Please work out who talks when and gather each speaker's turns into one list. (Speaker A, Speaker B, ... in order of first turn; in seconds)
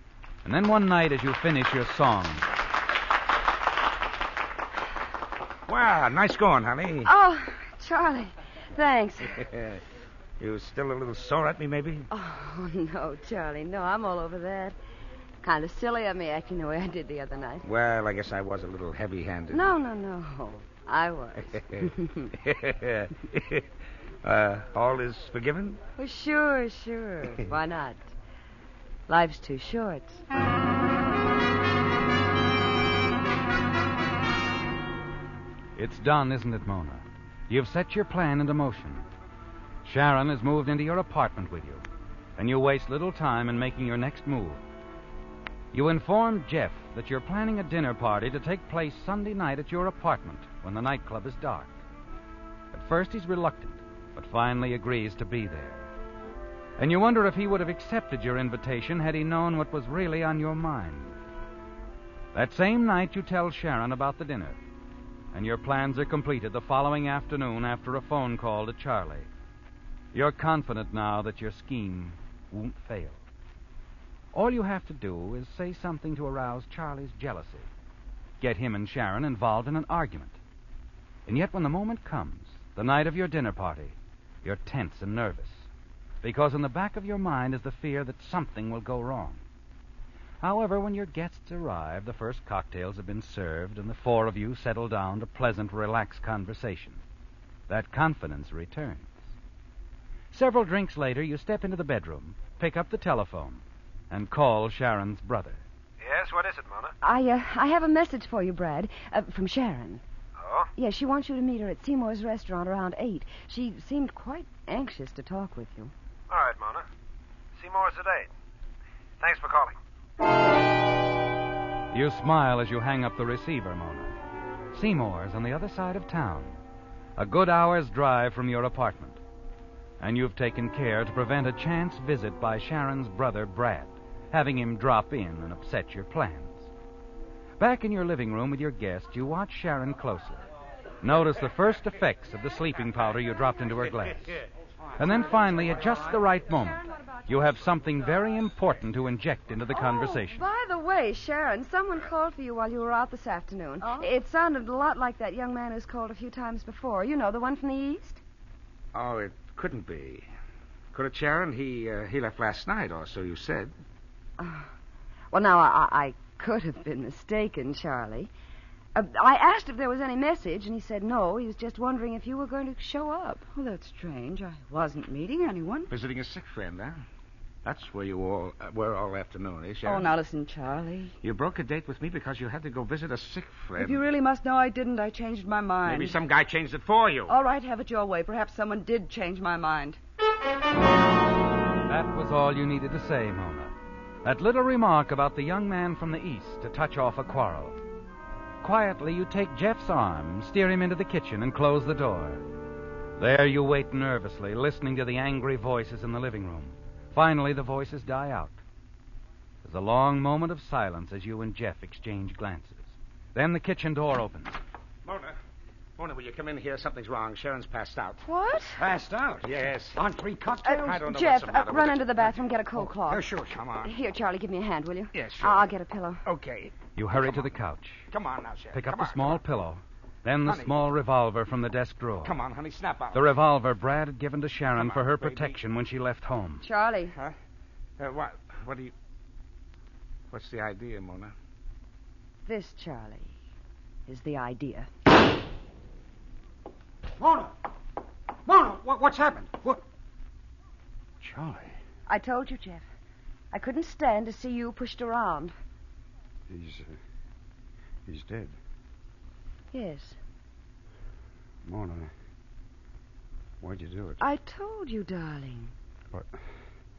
Speaker A: 0.5-2.5, 35.8-39.1, 39.8-41.8, 42.4-44.6, 45.7-51.8, 52.7-55.9, 56.8-61.2, 62.3-64.6, 65.3-69.3, 70.1-73.2, 74.3-77.7, 78.4-80.4, 81.3-85.7, 86.2-89.4, 90.4-97.0, 97.7-99.1, 100.3-105.6, 121.9-124.1, 124.7-126.6, 127.2-129.2, 130.0-136.7, 137.6-140.4, 141.0-144.3, 145.0-150.4, 191.9-197.8, 198.6-202.4, 203.2-208.6, 209.6-214.6, 227.0-228.1, 228.7-232.4, 233.1-236.7
Speaker B: 5.7-7.1, 9.5-9.8, 10.4-12.1, 17.6-19.7, 21.6-23.6, 24.2-25.8, 158.9-160.3, 160.9-163.7, 175.9-177.0, 177.7-180.1, 181.2-184.1, 185.8-187.3, 215.1-215.4, 216.0-218.2, 219.4-220.0, 220.7-222.3, 223.5-223.9, 225.1-225.7, 226.2-227.5, 228.1-229.4, 230.4-230.9, 232.2-233.3, 234.8-235.6, 238.0-238.9, 240.3-241.3
Speaker C: 7.0-9.4, 12.1-14.8, 15.4-17.6, 19.5-22.3, 26.0-28.1, 29.1-30.2, 107.0-110.0, 110.8-115.9, 149.7-158.2, 164.4-164.7, 165.3-168.3, 168.9-173.4, 218.2-218.8, 220.7-223.2, 223.8-226.2, 236.6-237.2, 242.5-243.3, 244.1-244.9, 252.1-252.9, 253.5-255.6, 259.7-260.2, 264.2-265.7
Speaker D: 106.0-106.9, 110.4-110.7, 116.3-116.8, 117.6-118.3, 119.2-119.8
Speaker E: 153.8-154.1, 173.5-175.9, 179.8-181.2, 183.8-186.2, 187.3-190.0
Speaker F: 218.8-220.9, 223.1-223.6, 247.2-247.6, 248.5-249.8, 251.2-251.8, 256.5-257.0, 258.1-258.6, 261.6-262.1, 263.6-264.2